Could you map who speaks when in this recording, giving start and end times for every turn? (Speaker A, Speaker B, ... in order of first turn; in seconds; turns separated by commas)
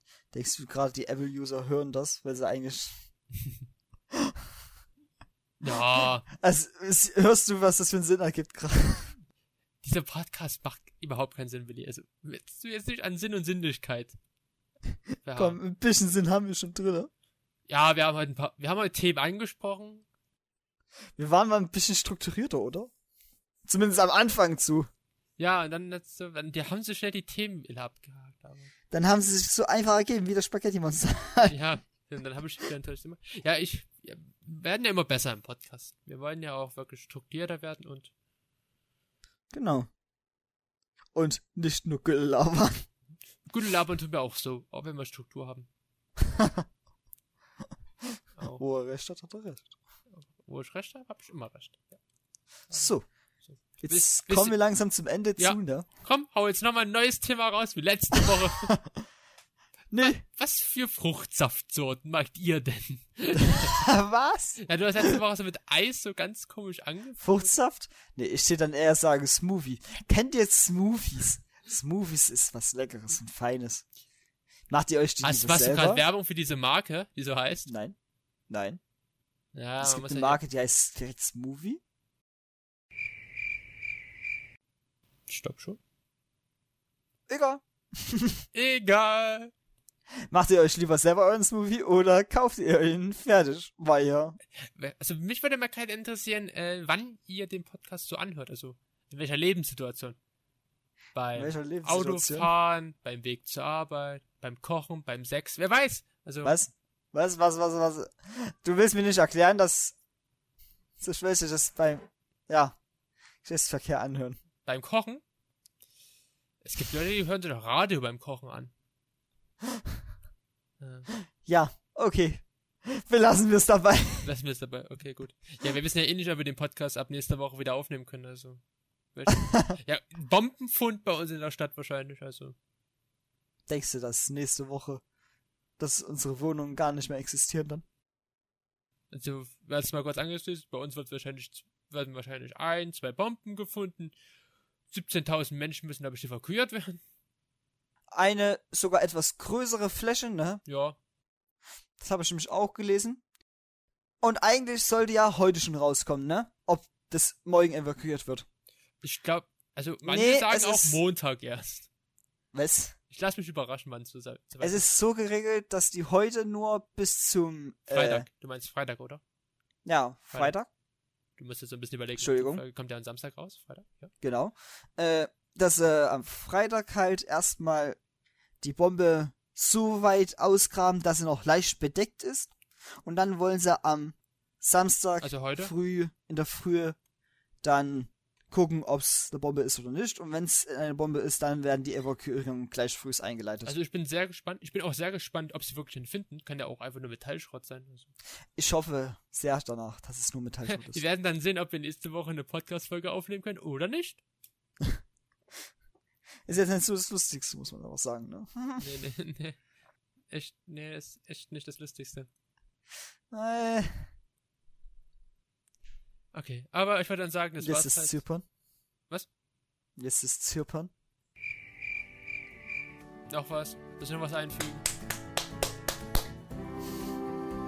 Speaker A: 0.3-3.0, Speaker A: 4.1-4.4, Speaker B: 5.6-6.3, Speaker A: 5.7-9.1, Speaker B: 9.8-14.2, Speaker B: 15.2-15.6, Speaker A: 15.3-17.1, Speaker B: 17.7-20.1, Speaker A: 21.1-22.9, Speaker A: 23.6-24.9, Speaker B: 25.4-28.7, Speaker A: 28.9-31.6, Speaker B: 31.5-38.1, Speaker A: 39.5-39.9, Speaker A: 41.1-42.8, Speaker B: 43.5-45.7, Speaker A: 46.2-46.6, Speaker A: 48.1-49.7, Speaker B: 50.1-52.0, Speaker A: 52.7-53.0, Speaker B: 53.4-54.6, Speaker A: 53.8-55.9, Speaker B: 55.4-58.7, Speaker A: 58.1-58.9, Speaker A: 59.9-60.2, Speaker B: 60.0-63.8, Speaker A: 63.5-64.6, Speaker B: 64.6-67.5, Speaker A: 67.2-73.8, Speaker A: 74.7-76.0, Speaker B: 75.2-77.7, Speaker A: 77.7-77.9, Speaker A: 78.5-78.8, Speaker B: 79.5-80.4, Speaker A: 79.8-81.8, Speaker B: 85.3-85.8, Speaker A: 87.3-88.4, Speaker B: 88.5-89.5, Speaker A: 90.3-94.4, Speaker B: 94.6-100.2, Speaker B: 101.1-106.5, Speaker A: 101.3-102.5, Speaker A: 106.4-110.0, Speaker A: 111.0-112.8, Speaker A: 113.4-114.4, Speaker B: 114.7-115.2, Speaker B: 116.6-118.7, Speaker B: 120.8-121.1, Speaker A: 121.4-124.3, Speaker B: 124.2-128.6, Speaker B: 129.1-132.6, Speaker A: 129.4-129.7, Speaker A: 133.7-135.0, Speaker A: 135.8-137.8, Speaker B: 139.1-144.1, Speaker B: 144.9-147.0, Speaker A: 148.1-150.6, Speaker B: 150.7-151.0, Speaker A: 152.0-153.2, Speaker A: 154.2-158.4, Speaker B: 159.0-161.9, Speaker A: 160.1-161.0, Speaker A: 162.5-162.9, Speaker B: 163.1-164.9, Speaker A: 164.6-168.3, Speaker B: 167.9-169.2, Speaker A: 169.8-170.7, Speaker B: 171.4-174.1, Speaker A: 172.2-172.6, Speaker A: 174.2-178.0, Speaker A: 178.6-182.5, Speaker A: 183.0-187.0, Speaker B: 185.2-185.7, Speaker A: 187.6-193.7, Speaker B: 193.7-198.1, Speaker A: 198.6-201.0, Speaker B: 200.7-204.2, Speaker A: 206.4-208.9, Speaker B: 208.8-209.6, Speaker B: 210.3-212.3, Speaker A: 213.3-214.1, Speaker B: 216.3-218.2, Speaker A: 217.6-218.4, Speaker A: 220.0-220.9, Speaker B: 223.3-224.8